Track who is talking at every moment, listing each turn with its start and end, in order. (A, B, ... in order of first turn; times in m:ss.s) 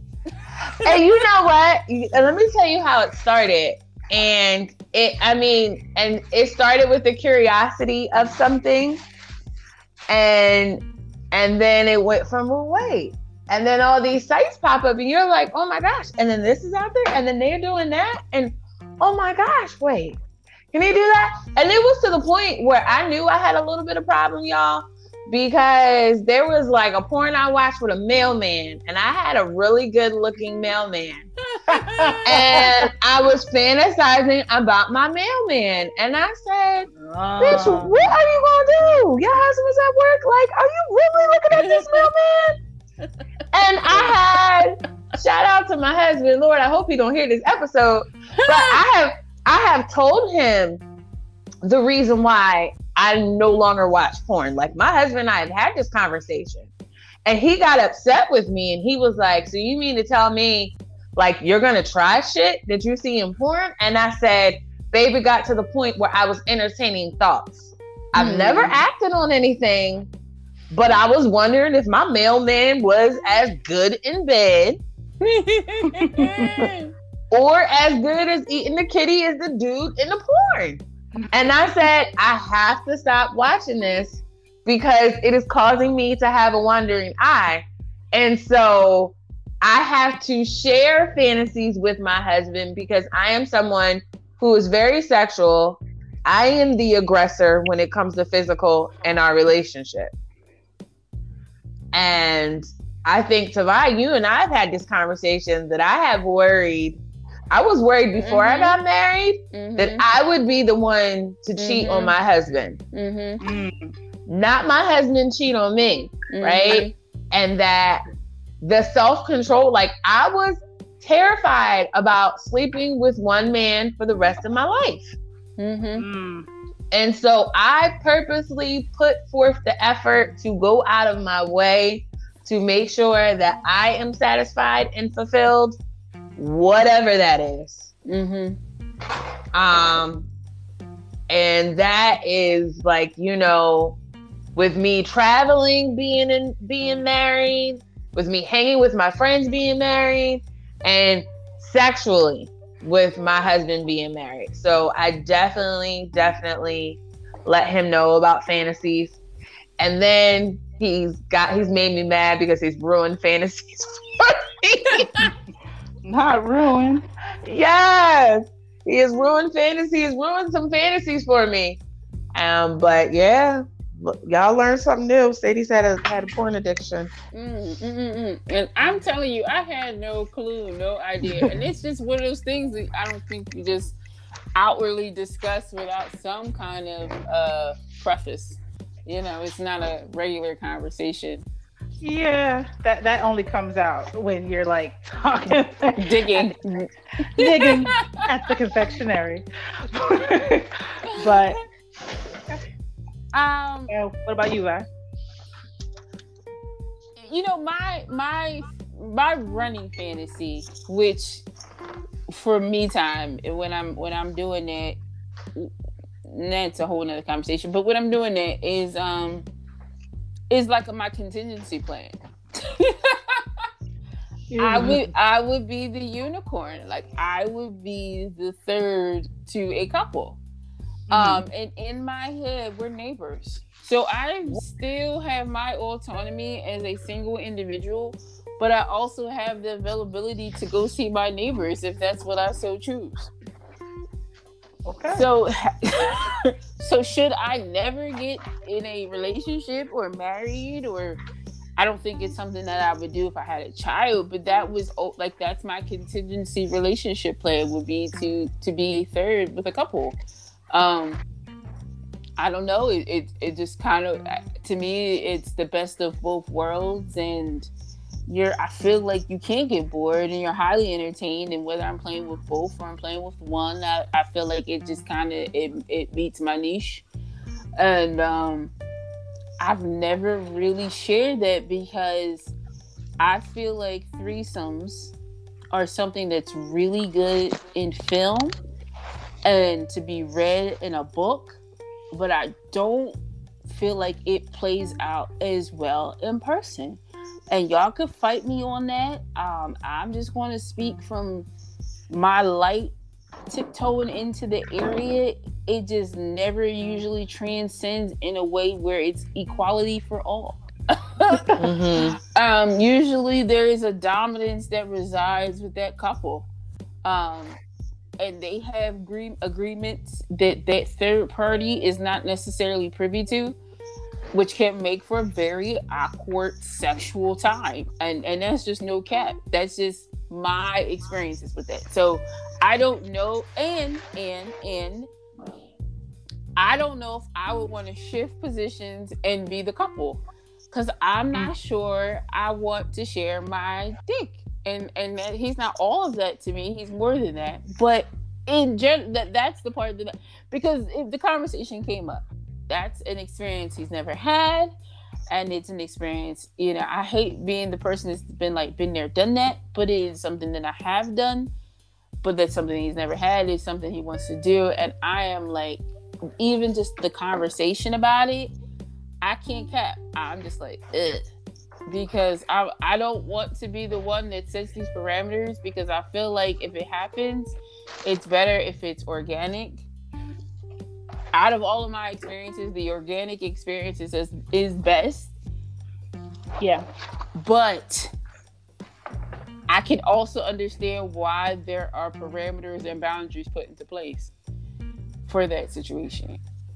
0:00.7-0:01.2 A
0:00.8-0:09.0 B
0:10.1-0:20.2 B
0:20.7-0:31.3 B
0:31.5-0:32.2 A
0:31.7-0:32.7 C
0:32.2-0:42.6 B
0:37.0-0:37.9 C
0:41.5-0:42.1 A
0:43.5-0:50.8 B
0:48.4-0:48.8 A
0:51.6-0:56.7 B
0:57.2-1:10.1 B
1:08.2-1:08.8 A
1:10.7-1:14.8 B
1:15.2-1:16.9 A
1:16.1-1:16.7 C
1:17.3-1:40.1 B
1:41.9-1:52.8 B
1:48.1-1:48.8 A
1:49.5-1:50.0 A
1:51.6-1:52.1 A
1:52.9-1:53.4 A
1:53.4-1:53.9 C
1:54.3-1:58.0 B
1:56.3-1:56.9 A
1:58.6-2:05.1 B
2:05.6-2:06.0 A
2:06.0-2:06.5 C
2:06.9-2:15.8 B
2:16.4-2:17.9 B
2:18.0-2:18.6 A
2:19.5-2:20.3 B
2:21.3-2:24.0 B
2:24.5-2:39.2 B
2:39.8-2:45.1 B
2:45.0-2:45.3 A
2:46.0-2:47.0 C
2:47.4-2:51.8 B
2:52.3-2:57.1 B
2:57.3-3:04.0 A
3:04.5-3:11.4 A
3:12.0-3:16.6 C
3:16.0-3:18.5 A
3:17.3-3:21.6 C
3:21.0-3:21.6 A
3:23.3-3:23.9 A
3:23.9-3:24.8 C
3:27.2-3:31.4 A
3:32.3-3:35.0 A
3:36.2-3:39.4 A
3:40.5-3:43.7 A
3:44.5-3:45.1 C
3:44.6-3:50.4 A
3:51.1-3:51.4 C
3:51.1-4:03.3 A
4:04.8-4:05.2 C
4:05.1-4:11.2 A
4:11.8-4:20.2 A
4:20.7-4:21.2 A
4:22.4-4:27.7 A
4:28.3-4:37.0 A
4:37.8-4:38.7 A
4:39.6-4:42.5 A
4:43.2-4:45.1 A
4:45.7-4:48.6 A
4:49.4-4:51.6 A
4:52.1-5:01.5 A
5:02.1-5:02.9 A
5:03.5-5:11.6 A
5:11.6-5:12.2 B
5:12.2-5:16.5 A
5:17.0-5:17.6 A
5:18.2-5:23.6 A
5:24.3-5:35.1 A
5:36.6-5:54.7 A
5:55.3-6:01.5 A
6:02.2-6:05.8 A
6:06.4-6:08.5 A
6:09.2-6:11.3 A
6:11.9-6:19.8 A
6:21.3-6:25.3 A
6:27.4-6:28.1 A
6:29.7-6:34.3 A
6:35.3-6:36.4 A